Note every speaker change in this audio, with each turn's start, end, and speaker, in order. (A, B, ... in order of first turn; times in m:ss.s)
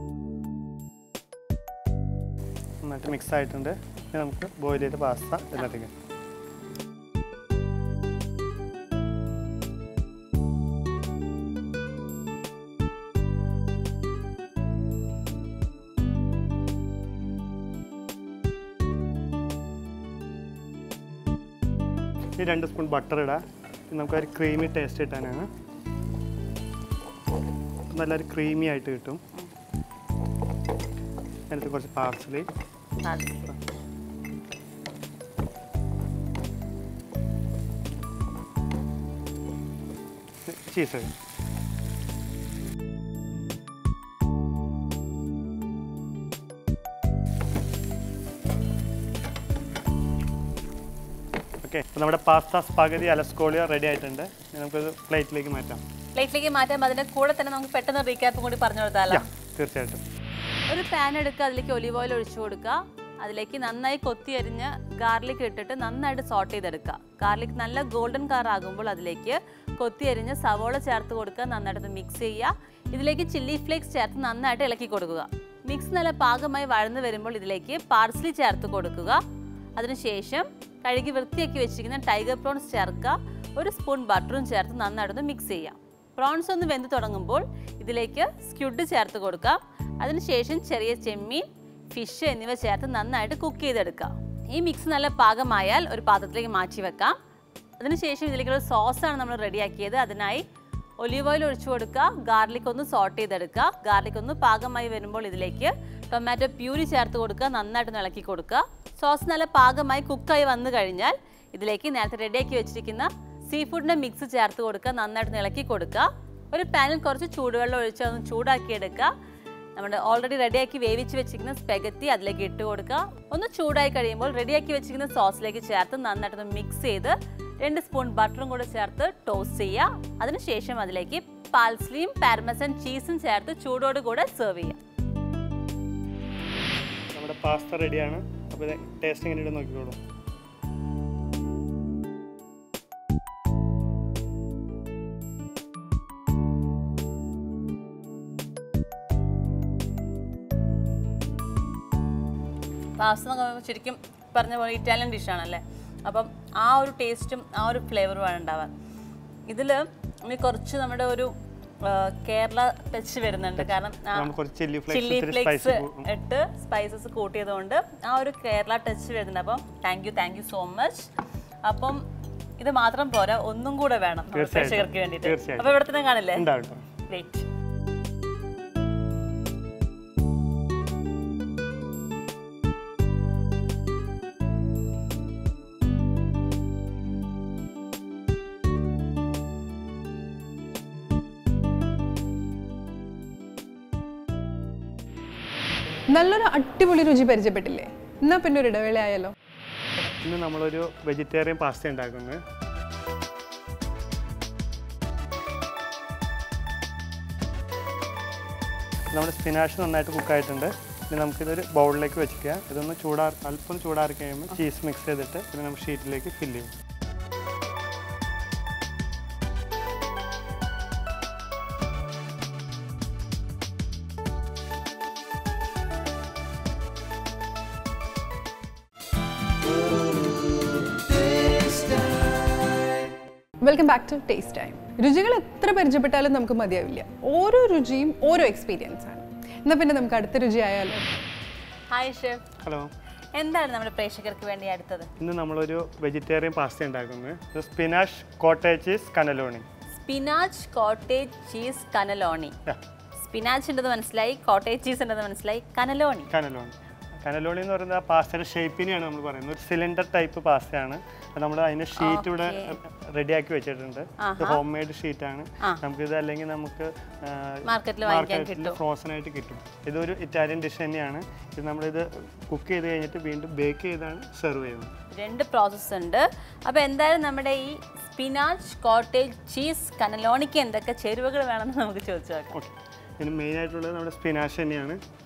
0:02.8-0:05.9 A
0:22.4-0:25.5 A
0:27.9-0:29.2 A
0:31.5-0:32.5 A
0:33.0-0:33.6 B
0:40.4-0:41.1 A
0:51.6-0:55.8 A
0:56.2-0:59.2 B
0:59.1-1:00.0 A
1:00.7-1:19.2 B
1:19.8-1:37.2 B
1:37.8-1:40.4 B
1:41.0-1:59.1 B
1:59.8-2:14.8 B
2:17.1-2:20.0 A
2:33.0-2:38.7 B
2:39.5-2:44.3 B
2:43.6-2:46.1 A
2:44.9-2:51.1 B
2:51.6-2:52.0 B
2:52.6-2:56.5 B
2:54.3-2:55.8 A
2:56.3-2:56.9 A
2:57.1-2:57.5 B
3:16.1-3:19.3 C
3:20.2-3:22.4 A
3:29.1-3:36.7 A
3:53.6-4:01.2 C
4:01.9-4:02.4 B
4:02.6-4:02.9 A
4:03.4-4:05.1 B
4:05.2-4:09.7 A
4:10.0-4:12.6 B
4:13.2-4:16.3 B
4:16.3-4:35.0 A
4:22.0-4:22.8 B
4:24.2-4:24.6 B
4:27.6-4:28.8 B
4:35.1-4:42.6 B
4:42.5-4:45.0 A